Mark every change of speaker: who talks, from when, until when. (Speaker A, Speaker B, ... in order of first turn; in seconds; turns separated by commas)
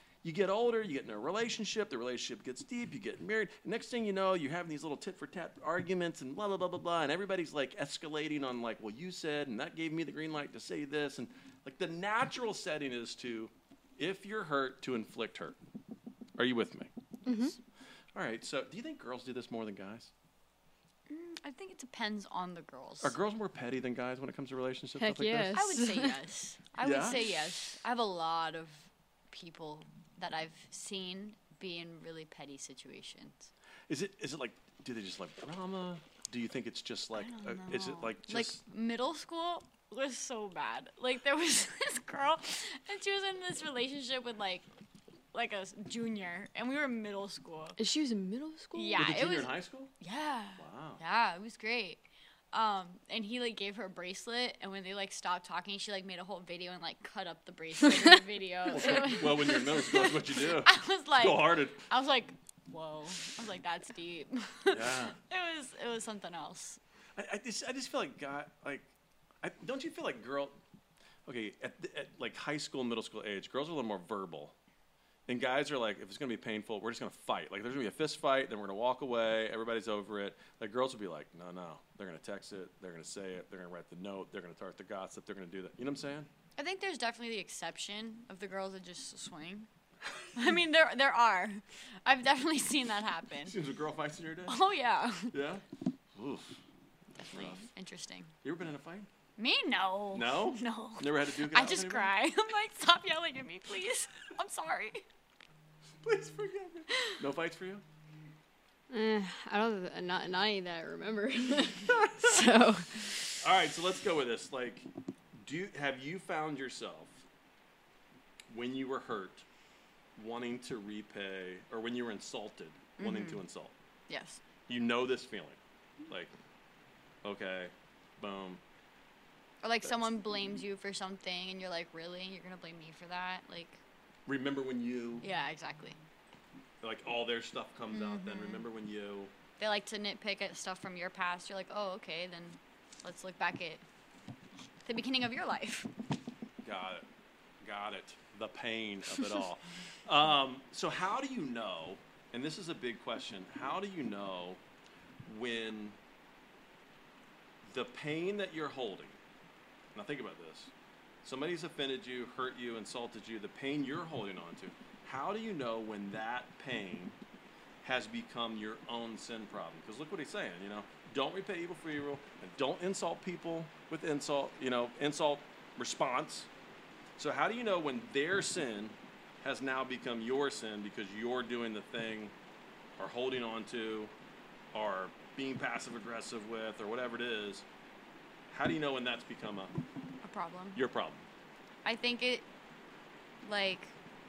Speaker A: 0.2-15.6, Speaker A: 16.4-17.5, Speaker B: 17.3-17.6, Speaker A: 18.1-20.1, Speaker C: 21.1-23.2, Speaker A: 23.0-25.6, Speaker B: 25.0-26.2, Speaker C: 25.5-33.5, Speaker A: 26.8-27.4, Speaker A: 33.9-38.6, Speaker C: 37.1-44.7, Speaker C: 45.3-47.8, Speaker B: 47.8-49.2, Speaker C: 48.7-66.8, Speaker A: 49.0-49.9, Speaker A: 50.6-51.0, Speaker A: 58.7-61.9, Speaker A: 64.7-65.2, Speaker A: 67.2-68.9, Speaker A: 69.4-70.6, Speaker A: 71.3-74.5, Speaker A: 75.3-86.3, Speaker C: 86.6-89.7, Speaker C: 90.3-93.6, Speaker A: 93.5-94.6, Speaker C: 94.5-95.3, Speaker A: 95.3-95.6, Speaker A: 96.2-96.6, Speaker A: 97.2-97.7, Speaker C: 97.2-98.3, Speaker A: 98.4-99.1, Speaker C: 99.4-105.0, Speaker A: 100.1-102.1, Speaker A: 106.0-107.8, Speaker B: 108.9-113.3, Speaker A: 112.0-112.4, Speaker A: 113.4-114.9, Speaker A: 115.4-117.2, Speaker A: 118.5-119.5, Speaker A: 120.2-123.8, Speaker C: 123.0-123.4, Speaker C: 124.1-124.4, Speaker A: 124.7-126.3, Speaker A: 127.2-128.6, Speaker C: 129.6-133.8, Speaker A: 134.3-135.2, Speaker C: 135.2-136.0, Speaker A: 136.8-139.3, Speaker C: 137.9-138.7, Speaker C: 139.6-143.8, Speaker C: 144.8-145.9, Speaker A: 146.6-147.1, Speaker A: 147.6-154.6, Speaker A: 155.2-156.0, Speaker A: 157.6-159.2, Speaker A: 159.9-160.7, Speaker A: 161.2-167.2, Speaker A: 167.8-176.5, Speaker A: 177.2-182.3, Speaker A: 183.0-184.1, Speaker A: 184.7-187.7, Speaker A: 188.5-189.8, Speaker C: 190.2-190.8, Speaker A: 190.8-191.2, Speaker C: 191.8-192.4, Speaker C: 193.4-193.9